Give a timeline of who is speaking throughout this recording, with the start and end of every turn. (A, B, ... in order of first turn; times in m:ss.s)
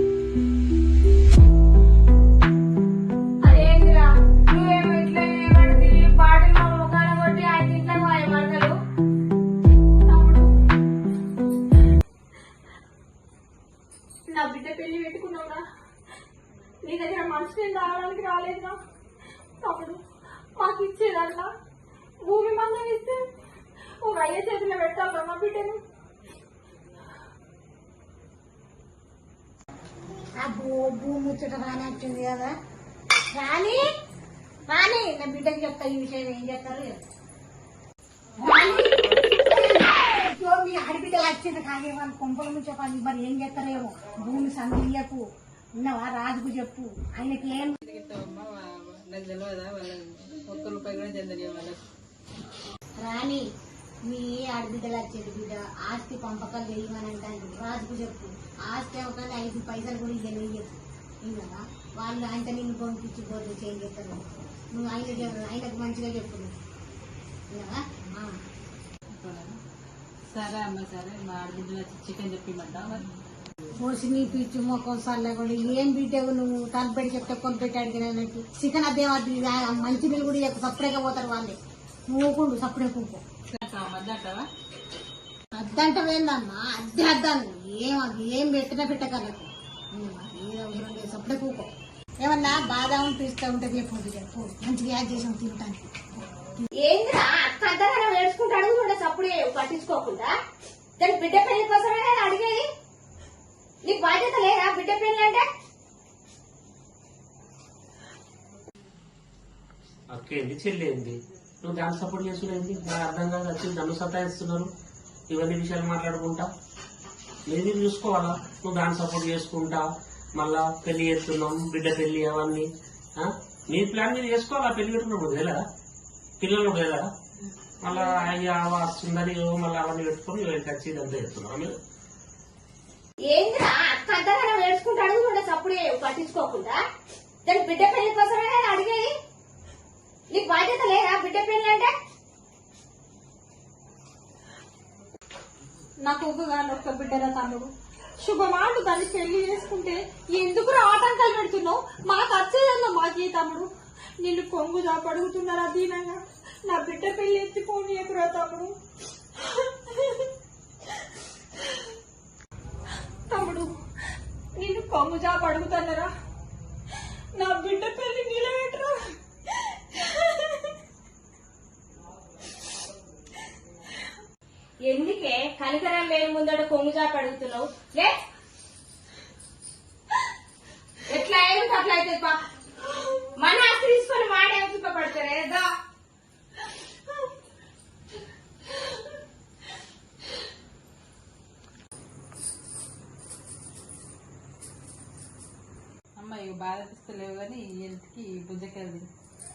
0:03.4-0:08.8 A
0:10.0-0:10.5 B
0:14.3-0:15.6 B
0:16.8-0:18.7 B
0:19.6-0:20.0 B
0:20.6-0:21.4 B
0:20.7-0:21.3 A
0:22.3-0:23.0 B
0:22.4-0:23.0 A
0:24.1-0:25.7 B
0:30.4-0:32.5 C
0:33.3-0:33.8 C
0:34.7-0:37.0 C
0:38.4-0:45.2 C
0:45.8-0:47.8 C
0:47.8-0:51.8 D
0:53.0-0:53.4 C
0:54.0-1:06.5 C
1:07.5-1:08.4 C
1:09.1-1:09.6 D
1:10.3-1:13.1 D
1:13.8-1:21.6 C
1:22.1-1:23.2 C
1:23.5-1:24.5 D
1:25.5-1:31.7 C
1:32.2-1:35.8 C
1:36.8-1:40.3 A
1:41.0-1:42.6 A
1:43.8-1:45.4 A
1:50.1-1:54.7 E
1:55.3-1:56.5 E
1:57.5-2:05.6 E
2:06.4-2:07.0 E
2:07.8-2:11.7 E
2:13.3-2:16.8 A
2:17.4-2:19.1 A
2:20.3-2:21.9 A
2:26.0-2:27.7 B
2:28.2-2:33.7 B
2:34.2-2:36.2 B
2:36.7-2:38.7 B
2:43.3-2:43.7 B
2:44.6-2:46.1 B
2:47.4-2:48.9 B
2:54.8-2:58.1 A
3:01.1-3:02.4 A
3:03.4-3:05.7 A
3:16.2-3:19.1 D